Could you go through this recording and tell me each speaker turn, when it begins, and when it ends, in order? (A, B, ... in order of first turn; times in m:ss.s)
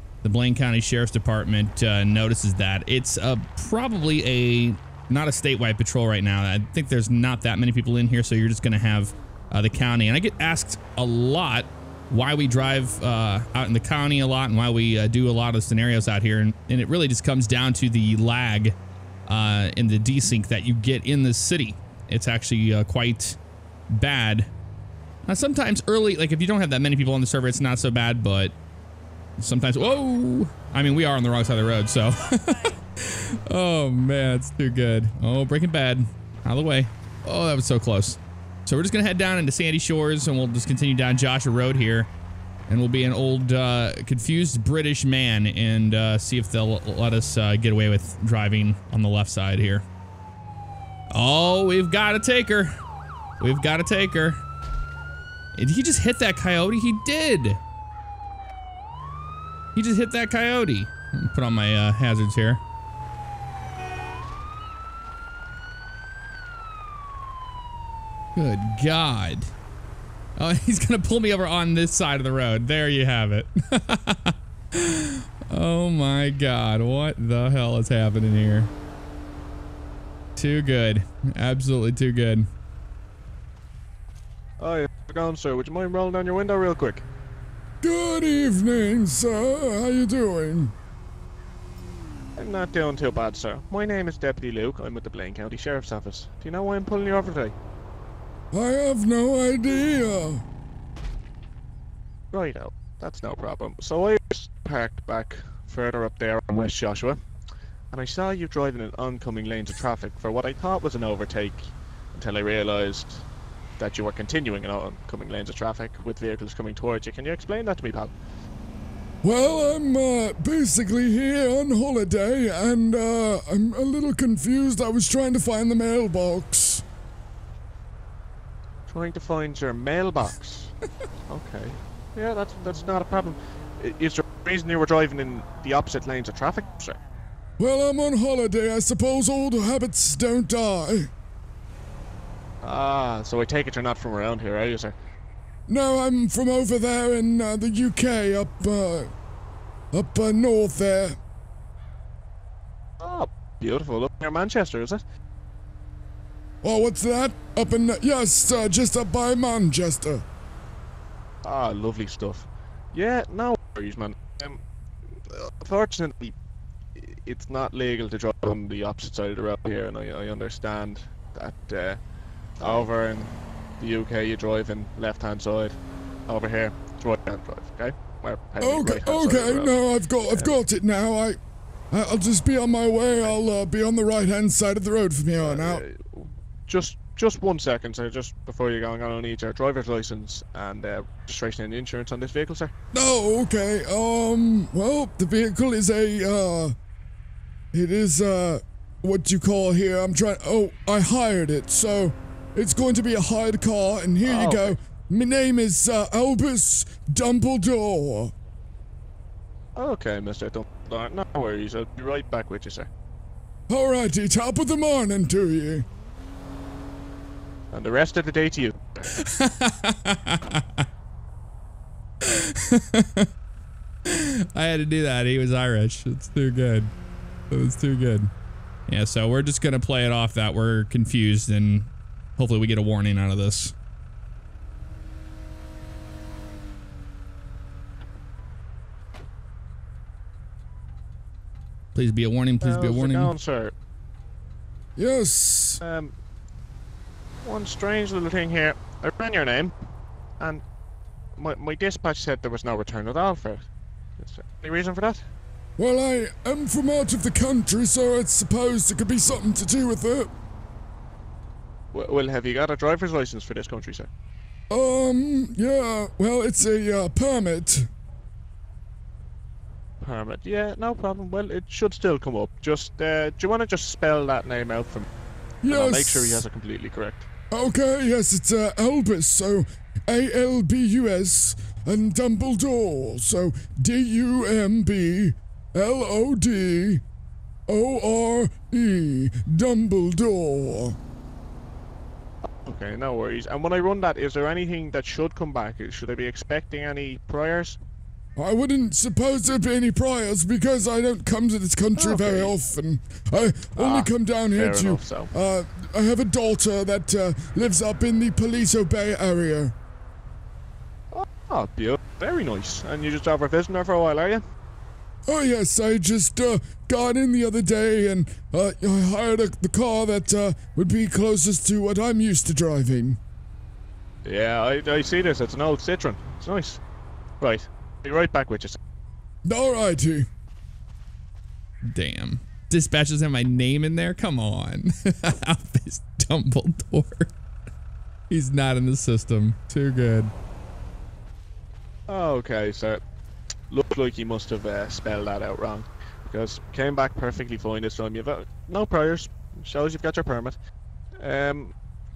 0:00.2-0:18.8 A
0:19.3-0:23.4 A
0:23.9-0:24.5 A
0:25.3-0:28.6 A
0:29.4-0:42.1 A
0:42.7-0:49.8 A
0:51.1-0:52.8 A
0:53.4-0:54.4 A
0:55.6-0:57.6 A
0:59.8-1:02.6 A
1:08.4-1:09.5 A
1:10.4-1:18.7 A
1:20.4-1:22.5 A
1:24.6-1:27.1 B
1:27.8-1:30.7 C
1:32.4-1:37.6 B
1:38.5-1:40.4 C
1:42.3-1:47.2 B
1:47.9-1:53.2 B
1:53.8-1:58.1 B
1:59.2-2:06.8 C
2:08.9-2:10.8 B
2:11.3-2:17.0 B
2:17.6-2:21.1 C
2:22.6-2:25.0 B
2:25.7-2:29.1 C
2:29.9-2:31.2 C
2:33.0-2:35.0 B
2:36.6-2:40.2 C
2:41.4-2:44.6 B
2:45.3-2:46.3 B
2:47.0-2:52.0 B
2:52.6-2:55.8 B
2:56.3-3:00.5 B
2:58.6-3:01.4 C
3:01.9-3:05.8 C
3:05.4-3:12.7 B
3:12.9-3:16.8 C
3:17.7-3:28.3 C
3:24.2-3:24.8 B
3:29.8-3:32.9 B
3:33.7-3:35.9 C
3:37.7-3:39.1 B
3:39.2-3:40.8 A
3:42.2-3:43.3 A
3:44.1-3:46.9 A
3:47.5-3:48.3 A
3:48.9-3:53.8 A
4:02.0-4:03.3 A
4:02.6-4:03.7 B
4:05.0-4:05.8 C
4:05.8-4:06.1 B
4:07.4-4:09.7 B
4:11.4-4:13.7 B
4:14.2-4:15.3 B
4:15.8-4:20.3 C
4:21.9-4:24.1 B
4:24.7-4:27.9 C
4:30.0-4:35.1 B
4:35.6-4:36.4 C
4:35.7-4:37.3 B
4:37.5-4:47.0 C
4:47.7-4:51.0 C
4:52.6-4:57.8 B
4:58.4-5:09.7 C
5:02.0-5:02.5 B
5:03.8-5:05.3 B
5:11.1-5:14.4 B
5:15.3-5:23.2 C
5:24.2-5:26.8 B
5:27.4-5:28.8 B
5:29.4-5:30.3 C
5:31.8-5:37.3 A
5:38.3-5:40.3 A
5:42.1-5:43.0 B
5:43.7-5:50.6 B
5:51.2-5:51.7 B